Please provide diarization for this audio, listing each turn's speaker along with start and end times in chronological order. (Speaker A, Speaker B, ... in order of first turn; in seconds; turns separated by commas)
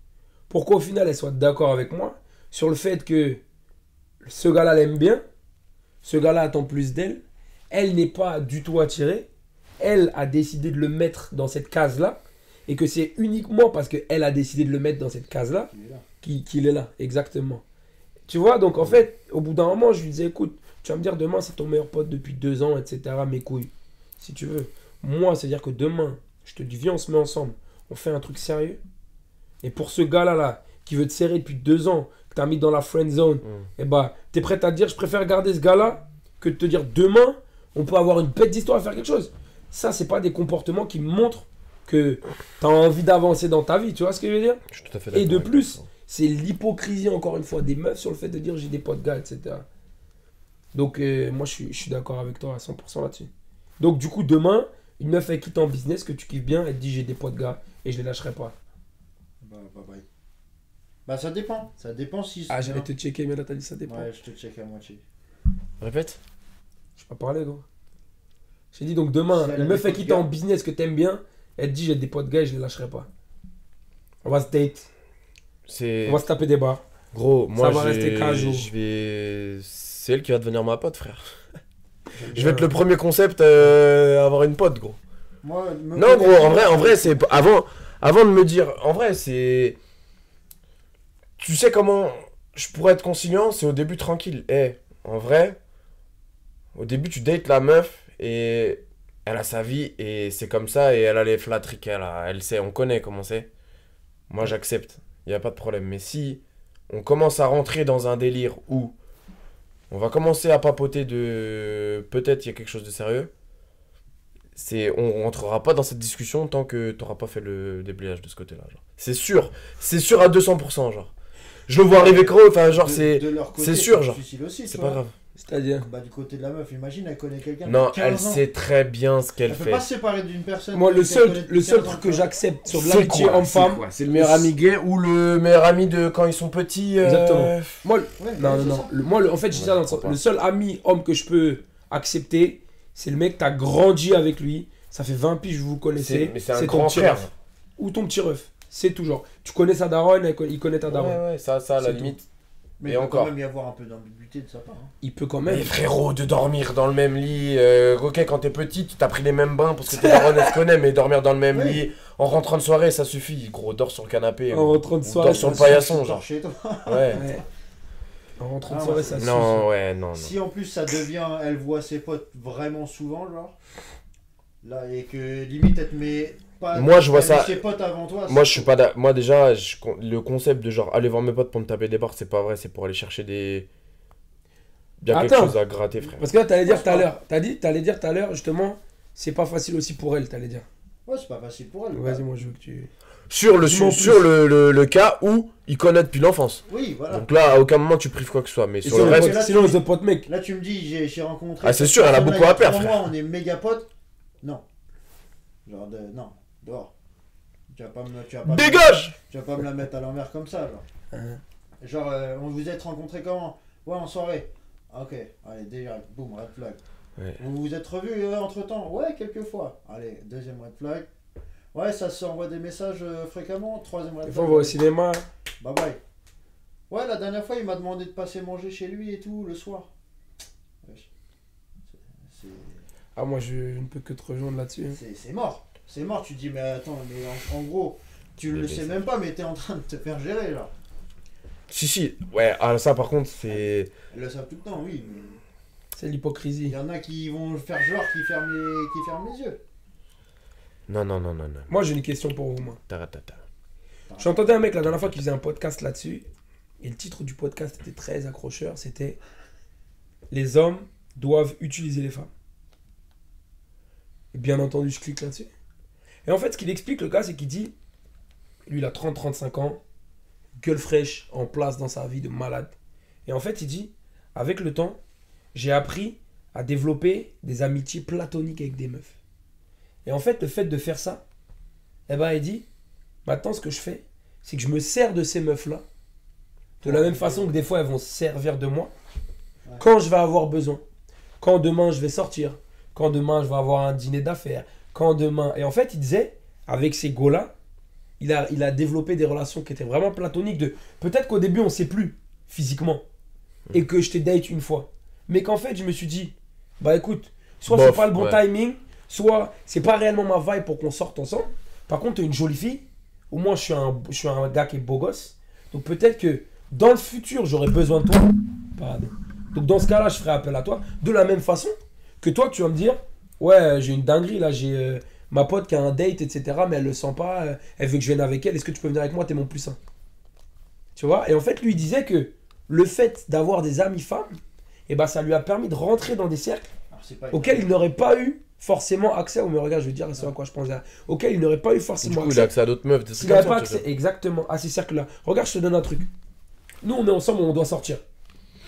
Speaker A: 0.5-3.4, Speaker A: 4.2-5.2, Speaker A: 6.0-9.3, Speaker A: 9.8-15.7, Speaker B: 15.7-16.1, Speaker A: 16.2-17.6, Speaker A: 18.3-28.8, Speaker A: 29.6-44.6, Speaker C: 44.7-45.8, Speaker A: 45.1-49.6, Speaker A: 50.7-58.5, Speaker B: 59.4-60.0, Speaker B: 61.0-62.9, Speaker A: 62.5-64.1, Speaker B: 63.9-65.0, Speaker C: 65.8-66.2, Speaker A: 67.0-67.6, Speaker A: 68.7-73.1, Speaker B: 69.3-70.3, Speaker A: 74.2-74.9, Speaker C: 75.7-76.2, Speaker A: 76.0-76.8, Speaker C: 77.1-81.2, Speaker A: 77.5-78.7, Speaker B: 82.1-82.6, Speaker A: 82.3-82.7, Speaker C: 82.3-85.0, Speaker B: 85.4-87.5, Speaker C: 85.9-89.8, Speaker C: 91.4-95.6, Speaker C: 96.7-103.5, Speaker C: 104.3-108.9, Speaker C: 109.9-113.3, Speaker C: 114.5-121.1, Speaker C: 121.7-125.1, Speaker B: 121.9-125.0, Speaker A: 125.4-125.9, Speaker B: 125.8-128.4, Speaker C: 127.7-129.8, Speaker B: 129.5-132.3, Speaker A: 130.7-134.5, Speaker C: 132.7-137.8, Speaker A: 137.0-151.2, Speaker B: 138.2-138.9, Speaker C: 139.5-140.2, Speaker C: 145.9-147.3, Speaker C: 150.8-152.2, Speaker A: 151.8-152.1, Speaker B: 152.8-154.9, Speaker C: 152.8-153.3, Speaker A: 155.0-155.7, Speaker C: 155.4-166.2, Speaker A: 159.9-160.6, Speaker B: 161.5-161.8, Speaker A: 164.5-165.9, Speaker B: 165.2-167.4, Speaker C: 166.8-167.2, Speaker A: 167.1-167.4, Speaker A: 168.4-169.6, Speaker B: 168.7-169.5, Speaker C: 169.2-170.3, Speaker B: 170.1-173.5, Speaker B: 174.6-178.7, Speaker C: 176.7-177.6, Speaker C: 178.3-183.7, Speaker C: 185.0-186.2, Speaker A: 185.1-185.6, Speaker A: 186.2-190.7, Speaker B: 186.6-187.1, Speaker B: 191.1-192.2, Speaker A: 191.9-192.9, Speaker C: 193.3-199.4, Speaker A: 193.6-194.2, Speaker B: 196.7-197.3, Speaker A: 198.8-200.3, Speaker B: 198.8-203.9, Speaker C: 201.6-203.0, Speaker B: 205.7-206.9, Speaker B: 207.7-210.8, Speaker C: 208.4-209.1, Speaker A: 211.1-211.4, Speaker B: 211.8-216.8, Speaker B: 217.4-221.1, Speaker B: 221.7-224.8, Speaker A: 224.2-225.2, Speaker B: 225.6-226.0, Speaker B: 226.9-229.9, Speaker B: 230.8-231.1, Speaker B: 231.9-232.8, Speaker A: 233.2-235.0, Speaker B: 234.9-240.7, Speaker C: 238.5-239.0, Speaker C: 241.7-243.9, Speaker B: 243.5-245.4, Speaker A: 245.9-246.8, Speaker B: 246.7-249.6, Speaker C: 250.9-251.7, Speaker A: 251.7-252.8, Speaker C: 252.9-253.4, Speaker B: 254.1-254.5, Speaker A: 254.2-256.2, Speaker A: 256.8-259.2, Speaker A: 260.3-262.3, Speaker A: 264.3-265.5, Speaker A: 266.2-267.7, Speaker A: 268.7-269.8, Speaker A: 270.6-272.7, Speaker A: 273.2-275.0, Speaker A: 275.5-279.1, Speaker A: 280.0-281.2, Speaker A: 282.1-282.6, Speaker A: 283.2-285.8, Speaker A: 286.8-288.9, Speaker B: 286.8-287.6, Speaker A: 289.8-290.8, Speaker A: 291.4-297.5, Speaker A: 298.2-303.0, Speaker A: 303.7-329.8, Speaker C: 307.7-308.4, Speaker A: 330.9-336.7, Speaker B: 336.9-337.7, Speaker A: 337.3-342.5, Speaker C: 342.0-343.8, Speaker A: 343.1-346.1, Speaker A: 346.8-348.0